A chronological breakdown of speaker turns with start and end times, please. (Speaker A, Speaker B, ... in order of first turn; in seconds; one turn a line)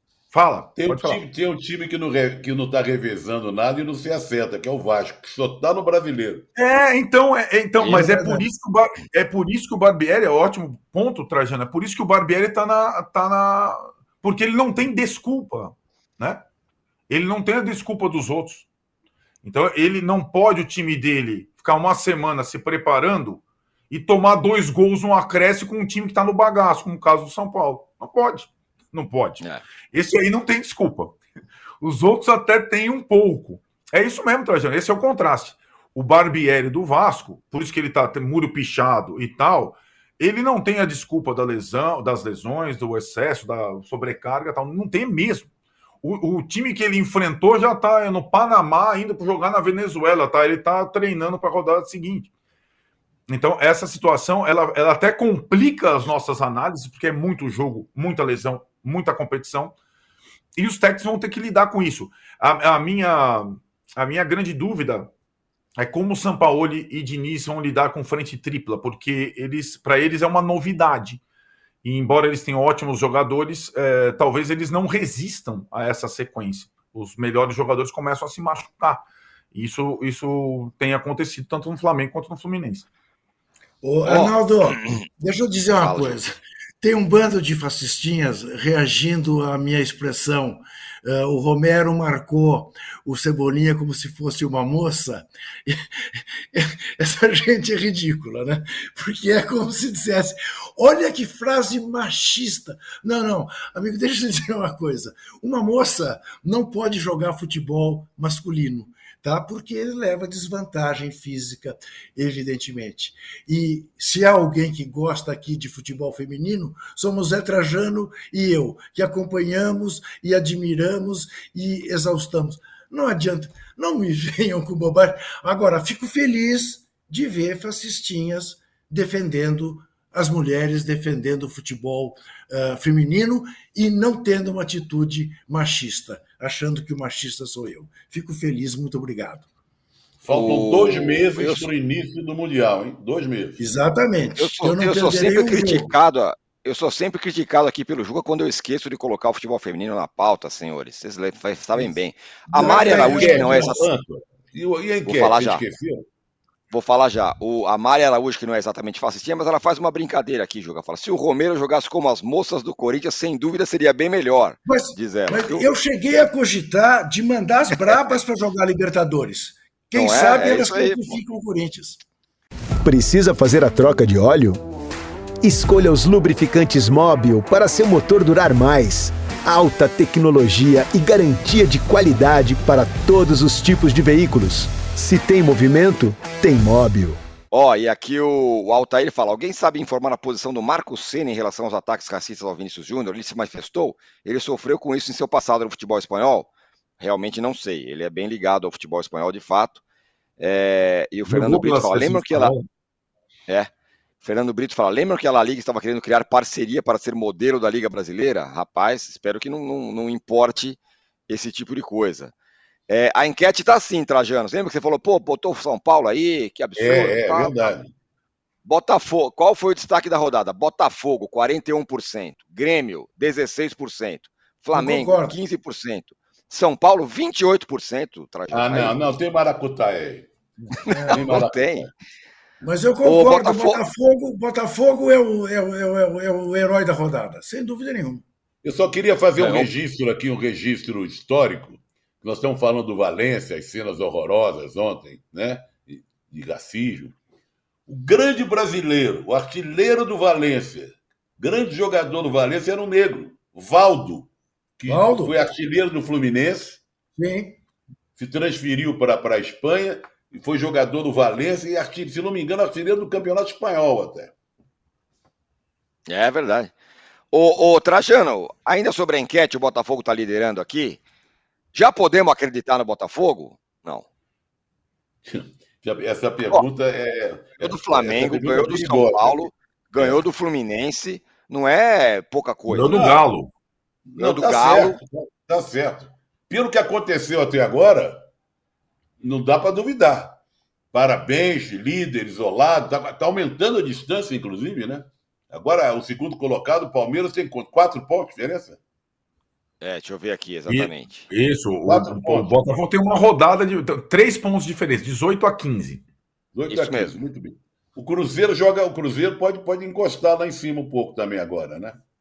Speaker A: 0.3-1.2
Speaker B: 0.8-6.5
Speaker A: 6.5-16.4
Speaker C: 7.8-8.5
Speaker A: 17.1-18.6
Speaker A: 19.4-31.2
Speaker A: 31.8-45.5
Speaker A: 46.0-52.3
Speaker A: 53.3-59.7
Speaker A: 60.6-65.1
Speaker A: 65.8-71.2
Speaker A: 71.8-82.8
Speaker C: 83.8-95.8
Speaker D: 84.0-85.0
Speaker D: 85.7-86.3
Speaker C: 96.5-139.5
Speaker B: 140.2-143.6
Speaker D: 140.3-141.7
Speaker C: 143.6-145.9
Speaker D: 144.4-153.9
Speaker C: 152.5-153.8
Speaker B: 152.5-156.0
Speaker D: 155.0-155.6
Speaker D: 156.7-165.7
Speaker C: 164.6-172.0
Speaker D: 167.8-168.0
Speaker D: 169.9-171.2
Speaker E: 172.8-174.6
Speaker E: 175.4-187.2
Speaker D: 187.5-196.5
Speaker D: 197.0-199.8
Speaker D: 200.4-202.5
Speaker A: 201.2-202.7
Speaker D: 204.2-212.3
Speaker D: 212.9-217.7
Speaker B: 216.8-217.9
Speaker D: 218.6-229.0
Speaker C: 224.7-225.4
Speaker B: 228.5-230.3
Speaker C: 230.7-231.4
Speaker D: 230.8-231.9
Speaker B: 231.1-231.9
Speaker C: 232.6-238.2
Speaker D: 233.0-233.8
Speaker B: 238.6-247.2
Speaker D: 239.3-239.7
Speaker B: 247.9-256.8
Speaker C: 254.9-255.3
Speaker C: 257.1-257.6
Speaker B: 258.1-264.3
Speaker D: 266.1-266.7
Speaker D: 267.3-271.0
Speaker D: 271.7-274.1
Speaker B: 275.2-280.2
Speaker D: 277.6-283.0
Speaker A: 282.7-283.5
Speaker B: 282.8-283.2
Speaker B: 284.1-288.2
Speaker D: 284.2-285.0
Speaker B: 289.2-290.4
Speaker B: 290.9-298.8
Speaker D: 299.8-301.3
Speaker A: 300.7-306.0
Speaker B: 301.9-302.6
Speaker B: 306.5-312.0
Speaker D: 306.7-307.2